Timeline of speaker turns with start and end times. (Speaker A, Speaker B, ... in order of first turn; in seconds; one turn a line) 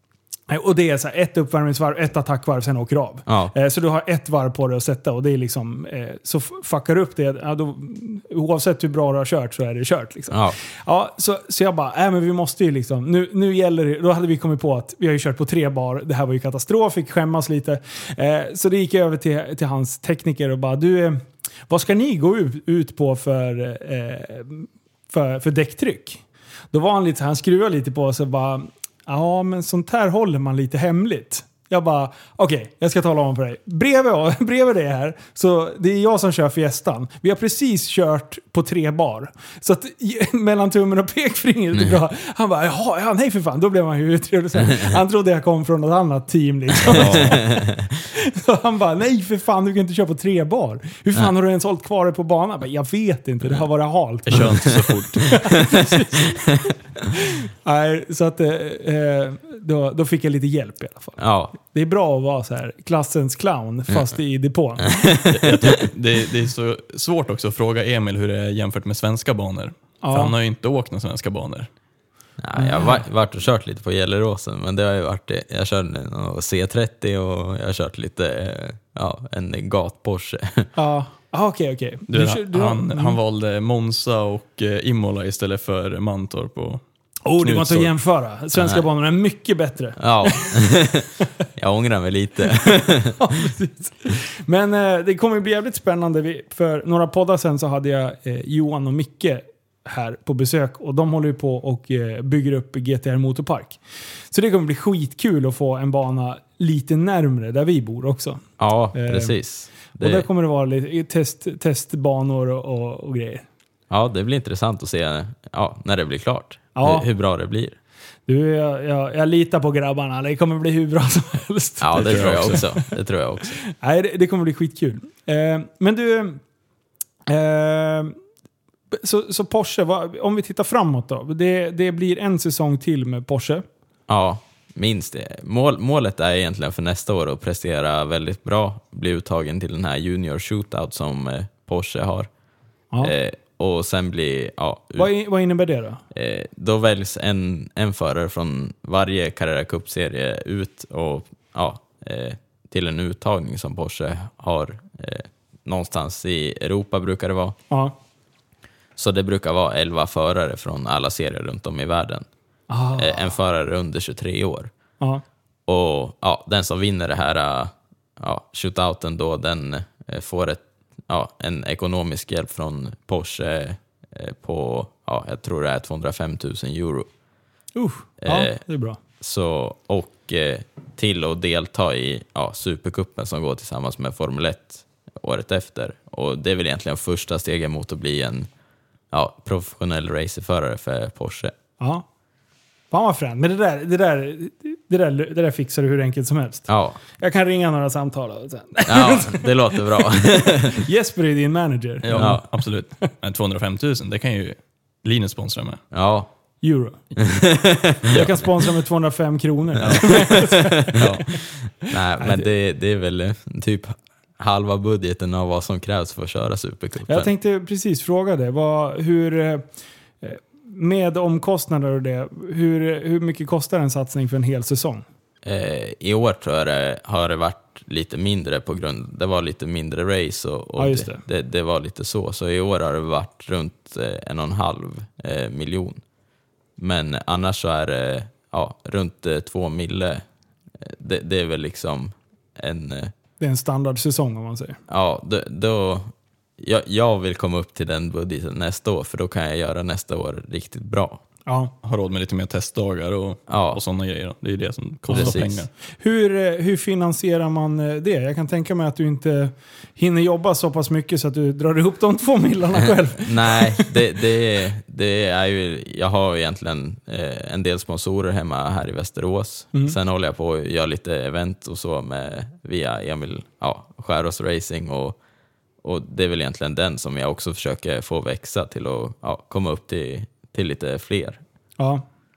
Speaker A: 0.5-56.5
Speaker B: 3.3-3.5
Speaker B: 10.3-10.6
Speaker C: 46.8-47.4
Speaker B: 47.0-47.9
Speaker C: 54.3-56.2
Speaker A: 57.1-65.1
Speaker B: 61.2-61.5
Speaker B: 64.8-65.9
Speaker C: 65.2-71.7
Speaker A: 70.0-70.3
Speaker B: 72.4-80.7
Speaker A: 72.5-73.0
Speaker A: 80.8-83.2
Speaker C: 82.1-86.8
Speaker A: 87.2-90.6
Speaker C: 87.4-87.9
Speaker B: 90.0-93.5
Speaker A: 92.6-109.3
Speaker B: 108.6-110.2
Speaker A: 109.9-113.5
Speaker B: 113.9-117.8
Speaker A: 116.8-117.0
Speaker A: 118.3-122.9
Speaker B: 121.8-123.6
Speaker C: 122.0-122.6
Speaker A: 123.7-126.4
Speaker A: 127.3-128.1
Speaker A: 128.9-133.6
Speaker B: 134.1-142.3
Speaker B: 143.0-145.1
Speaker A: 145.0-146.0
Speaker B: 146.1-157.6
Speaker A: 157.7-157.9
Speaker B: 158.9-162.3
Speaker A: 162.7-163.3
Speaker B: 163.0-164.7
Speaker B: 165.7-177.1
Speaker A: 177.8-179.0
Speaker B: 178.2-178.6
Speaker B: 179.2-188.5
Speaker B: 189.1-191.5
Speaker A: 191.8-192.0
Speaker A: 192.9-202.4
Speaker B: 196.7-197.0
Speaker B: 198.9-200.8
Speaker C: 202.0-205.8
Speaker B: 202.1-202.4
Speaker B: 205.9-206.3
Speaker A: 206.6-207.0
Speaker B: 207.2-208.3
Speaker A: 208.1-211.0
Speaker B: 209.8-217.3
Speaker C: 209.8-210.2
Speaker C: 210.9-211.2
Speaker A: 212.2-212.4
Speaker A: 217.1-219.7
Speaker A: 220.2-225.0
Speaker B: 225.4-236.0
Speaker A: 230.8-231.2
Speaker B: 236.8-240.2
Speaker B: 240.8-243.1
Speaker A: 243.4-244.8
Speaker B: 244.9-251.2
Speaker A: 251.4-251.7
Speaker C: 251.8-255.7
Speaker B: 253.5-253.8
Speaker A: 255.1-255.4
Speaker B: 255.1-255.6
Speaker A: 256.0-263.9
Speaker B: 263.1-275.2
Speaker B: 275.8-281.4
Speaker A: 281.8-282.0